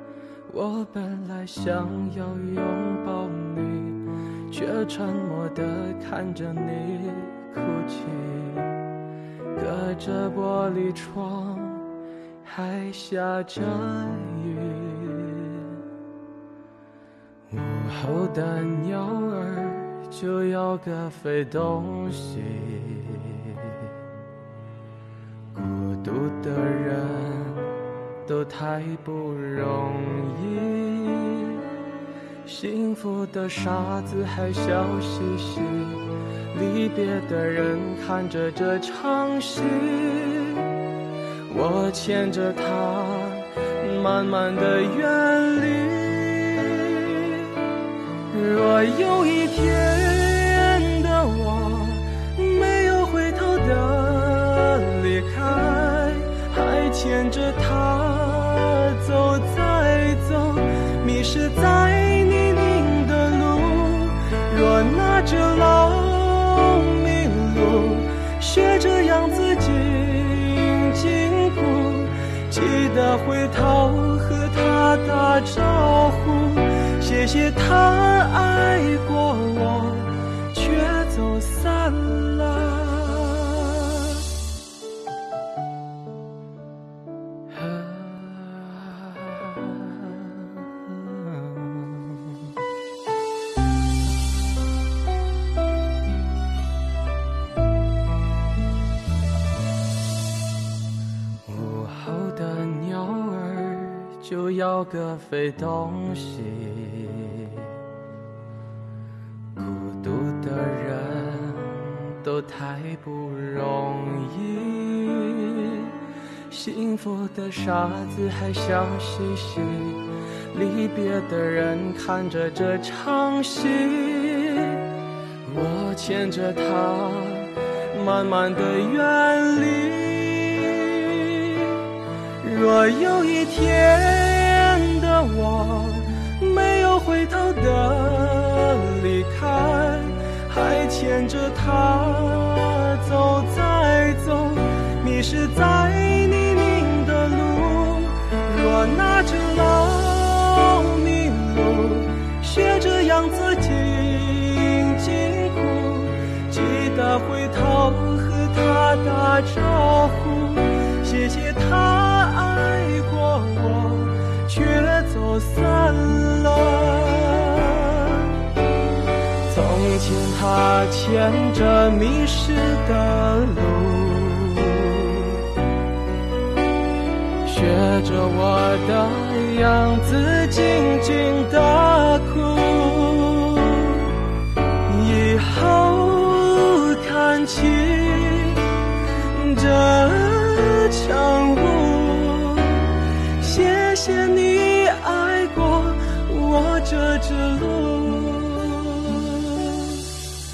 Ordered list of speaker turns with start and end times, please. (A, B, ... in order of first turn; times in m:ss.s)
0:00.5-0:08.7 A
0:09.6-0:11.8 A
0:12.4-0:15.7 A
0:17.5-0:23.9 A
0:25.5-0:27.7 A
0:28.2-0:31.6 A
0:32.4-0:40.7 A
0:41.5-0:47.6 A
0:48.3-1:24.2 A
1:27.5-1:32.4 A
1:41.5-1:47.7 A
1:49.6-1:55.9 A
1:56.5-2:04.8 A
2:05.4-2:11.8 A
2:12.4-2:48.4 A
2:49.5-2:55.4 A
2:57.4-3:04.2 A
3:04.9-3:08.6 A
3:09.3-3:20.1 A